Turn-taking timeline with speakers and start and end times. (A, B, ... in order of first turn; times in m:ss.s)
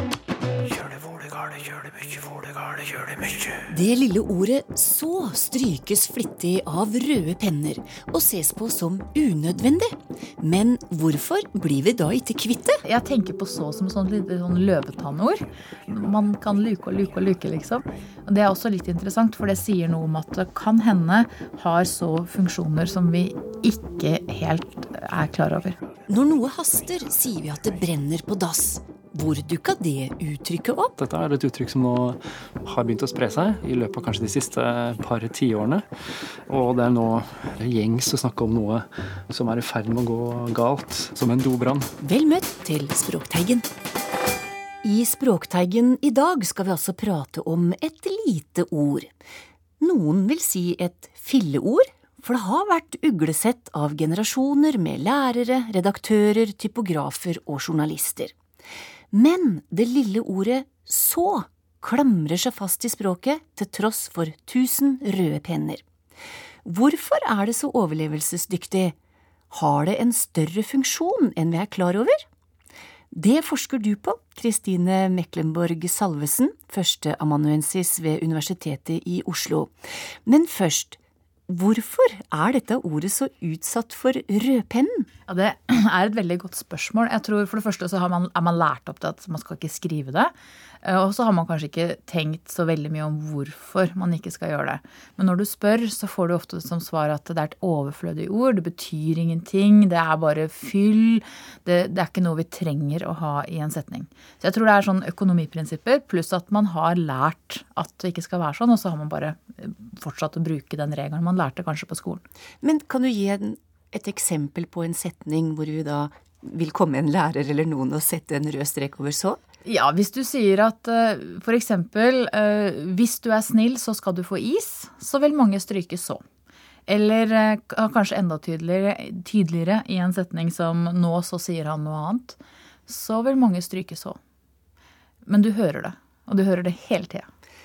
0:03.7-0:12.8 A
0:12.8-0:25.8 B
0:26.1-0:30.9 A
0:31.0-0:35.9 C
0:36.5-0:41.9 C
0:42.0-0:43.7 A
0:44.8-0:49.1 A
0:49.8-0:58.4 A
0:59.1-1:05.8 A
1:06.6-1:09.0 A
1:09.5-1:12.2 A
1:13.1-1:25.1 A
1:25.3-1:30.3 B
1:30.8-1:52.2 B
1:52.6-1:59.4 A
1:59.6-2:06.2 B
2:06.9-2:14.2 B
2:15.3-2:17.3 B